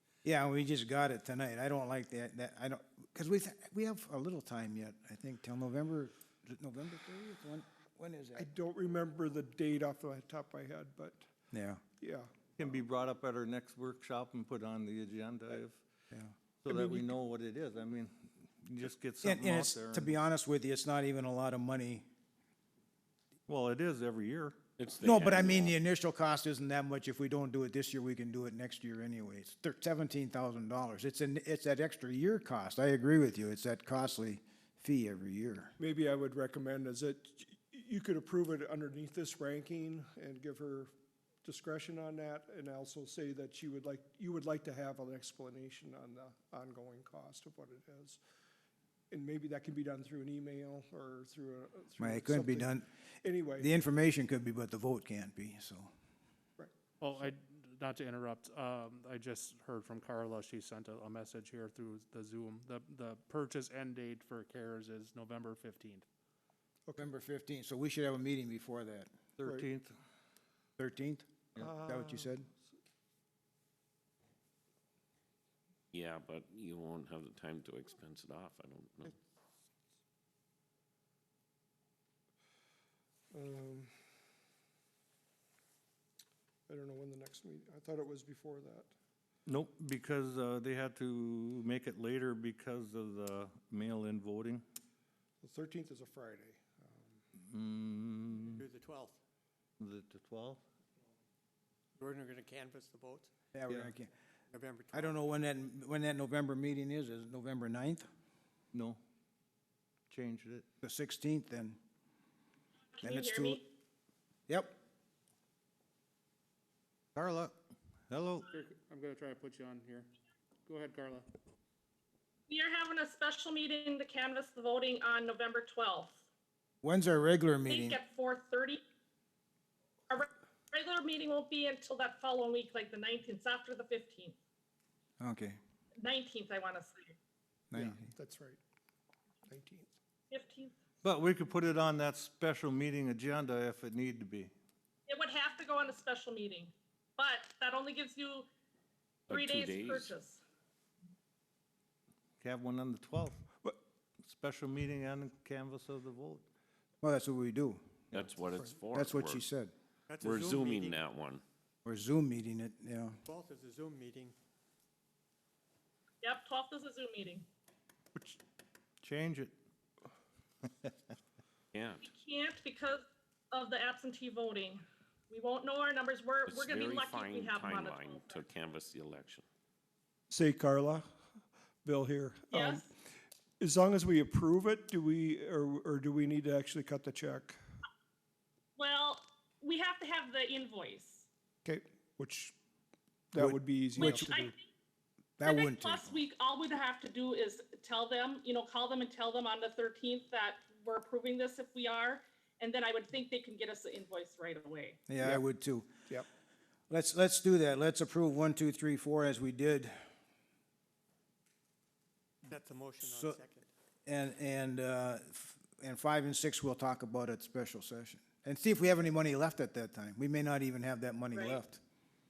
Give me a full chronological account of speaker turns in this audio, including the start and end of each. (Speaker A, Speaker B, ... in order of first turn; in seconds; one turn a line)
Speaker A: 0.2-8.5
Speaker B: 8.3-11.2
Speaker A: 11.5-11.8
Speaker B: 12.0-12.3
Speaker C: 12.6-15.8
Speaker A: 16.1-17.1
Speaker C: 16.6-20.1
Speaker A: 19.2-22.0
Speaker C: 23.5-24.6
Speaker D: 24.8-25.8
Speaker A: 25.0-35.7
Speaker B: 35.8-40.9
Speaker B: 41.4-48.2
Speaker B: 49.1-52.7
Speaker A: 52.0-52.9
Speaker B: 53.2-53.7
Speaker A: 53.6-55.9
Speaker B: 56.6-57.3
Speaker E: 57.0-66.0
Speaker A: 67.0-69.1
Speaker C: 69.4-69.9
Speaker A: 70.8-72.5
Speaker B: 71.6-72.3
Speaker D: 75.9-79.1
Speaker B: 83.3-83.9
Speaker B: 86.7-88.9
Speaker C: 89.5-94.6
Speaker B: 95.4-97.2
Speaker C: 97.4-98.6
Speaker F: 98.5-99.2
Speaker C: 99.8-100.6
Speaker F: 102.0-103.3
Speaker A: 103.5-104.1
Speaker F: 104.5-105.2
Speaker A: 104.9-108.1
Speaker C: 108.7-109.0
Speaker C: 110.1-110.7
Speaker A: 110.8-111.8
Speaker G: 112.9-113.6
Speaker A: 113.0-113.6
Speaker A: 114.5-114.7
Speaker C: 117.1-117.6
Speaker C: 118.1-118.5
Speaker E: 118.5-120.1
Speaker E: 120.7-121.3
Speaker G: 122.5-126.2
Speaker A: 126.8-128.0
Speaker G: 127.7-128.8
Speaker G: 130.1-134.4
Speaker A: 135.2-135.6
Speaker G: 136.0-137.1
Speaker A: 137.7-138.0
Speaker B: 137.7-138.6
Speaker B: 139.4-139.9
Speaker G: 140.3-140.7
Speaker C: 141.0-144.5
Speaker G: 145.1-148.5
Speaker D: 149.3-150.2
Speaker G: 149.3-150.4
Speaker C: 152.4-153.4
Speaker C: 154.2-156.4
Speaker A: 157.0-157.8
Speaker D: 158.1-159.4
Speaker A: 158.9-159.7
Speaker F: 160.1-161.0
Speaker D: 160.2-161.4
Speaker A: 161.8-163.2
Speaker F: 163.2-164.3
Speaker G: 166.2-167.5
Speaker C: 169.0-169.5
Speaker D: 171.7-172.1
Speaker G: 172.0-178.4
Speaker D: 176.4-179.4
Speaker B: 180.3-181.0
Speaker B: 181.8-182.9
Speaker G: 182.5-182.8
Speaker B: 183.6-187.6
Speaker G: 188.8-191.2
Speaker B: 191.6-192.5
Speaker B: 193.3-194.5
Speaker A: 193.3-194.3
Speaker G: 193.9-194.6
Speaker A: 195.4-196.2
Speaker G: 195.4-205.0
Speaker A: 205.1-206.0
Speaker A: 206.9-209.9
Speaker F: 212.4-213.7
Speaker A: 213.1-213.4
Speaker A: 214.1-221.8
Speaker G: 221.3-221.6